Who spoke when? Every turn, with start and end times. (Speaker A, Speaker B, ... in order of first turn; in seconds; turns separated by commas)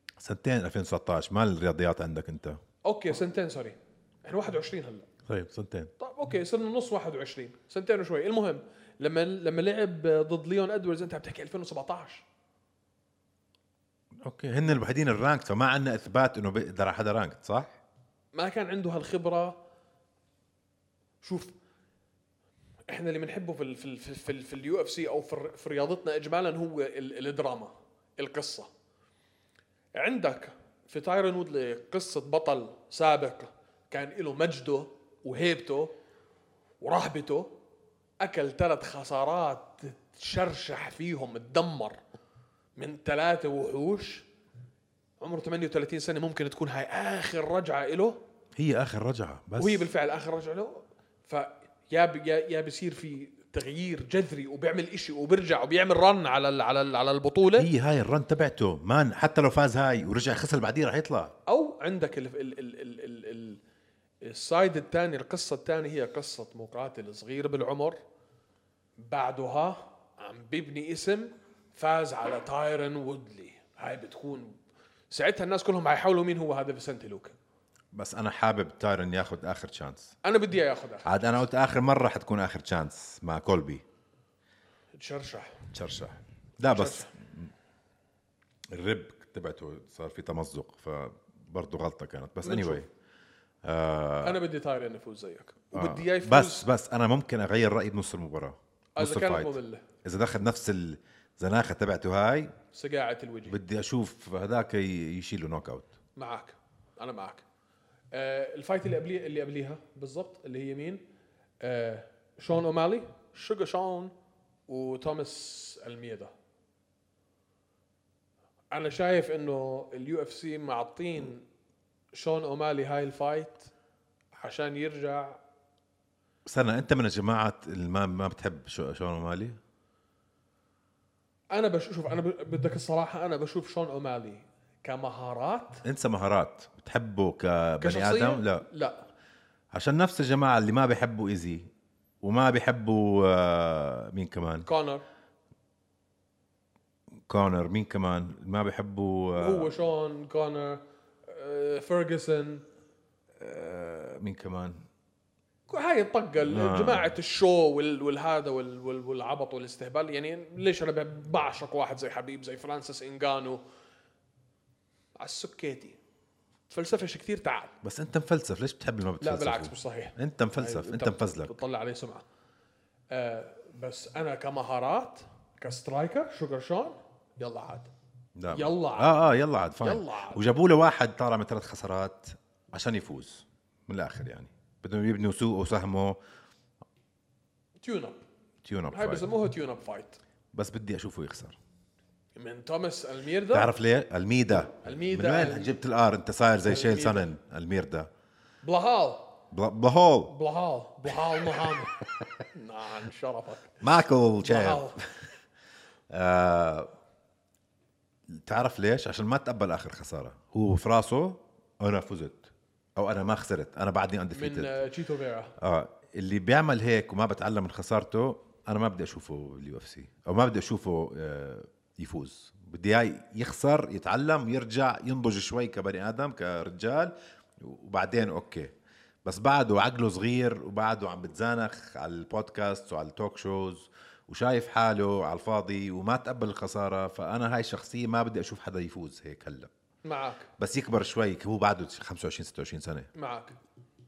Speaker A: 0.2-2.6, Speaker B: 2.8-5.1, Speaker A: 5.3-5.9, Speaker B: 6.0-12.2, Speaker A: 14.2-17.8, Speaker B: 18.3-19.6, Speaker B: 21.2-21.5, Speaker B: 22.9-28.7, Speaker B: 29.9-35.9, Speaker B: 36.8-37.5, Speaker B: 38.2-42.0, Speaker B: 42.8-44.3, Speaker B: 45.2-48.2, Speaker A: 48.5-49.9, Speaker B: 49.6-57.7, Speaker A: 57.6-61.3, Speaker B: 61.5-63.6, Speaker B: 64.2-68.0, Speaker B: 69.0-74.6, Speaker B: 75.1-77.3, Speaker A: 77.9-80.1, Speaker B: 80.2-81.2, Speaker A: 81.0-83.8, Speaker B: 84.9-85.7, Speaker A: 85.7-87.5, Speaker B: 86.6-87.1, Speaker A: 88.7-92.9, Speaker B: 92.4-92.8, Speaker A: 93.6-94.4, Speaker B: 94.2-96.7, Speaker A: 95.7-102.5, Speaker B: 99.0-99.8, Speaker B: 102.7-103.5, Speaker A: 103.5-105.9, Speaker B: 106.2-107.4, Speaker B: 108.1-111.0, Speaker B: 111.6-114.1, Speaker B: 114.7-116.3, Speaker B: 118.7-121.4, Speaker B: 122.1-123.7, Speaker B: 124.4-125.4, Speaker A: 126.5-129.6, Speaker B: 131.5-135.8, Speaker A: 135.8-138.7, Speaker B: 137.8-139.1, Speaker A: 139.7-141.7, Speaker A: 142.2-144.7, Speaker B: 144.7-145.0, Speaker A: 147.3-149.7, Speaker B: 149.3-152.6, Speaker A: 153.4-154.8, Speaker B: 155.7-163.6, Speaker A: 156.4-157.1, Speaker B: 165.2-166.0, Speaker B: 166.7-167.7, Speaker A: 167.8-171.5, Speaker B: 169.2-172.2, Speaker B: 173.1-177.9, Speaker A: 178.3-186.2, Speaker B: 178.5-179.2, Speaker B: 179.8-180.4, Speaker B: 187.8-188.2, Speaker A: 188.6-189.3, Speaker B: 188.9-190.2, Speaker A: 190.5-191.6, Speaker B: 192.3-193.7, Speaker A: 193.5-198.1, Speaker B: 194.8-195.7, Speaker B: 196.6-197.3, Speaker B: 198.6-199.3, Speaker A: 199.5-200.3, Speaker B: 200.3-201.9, Speaker A: 201.5-201.9, Speaker B: 202.5-203.8, Speaker A: 203.8-205.1, Speaker B: 204.4-205.0, Speaker A: 206.1-206.9, Speaker A: 208.3-214.8, Speaker B: 214.3-215.5, Speaker A: 215.6-228.7, Speaker A: 229.2-239.7, Speaker B: 240.0-240.5, Speaker A: 240.6-243.1, Speaker B: 243.1-243.6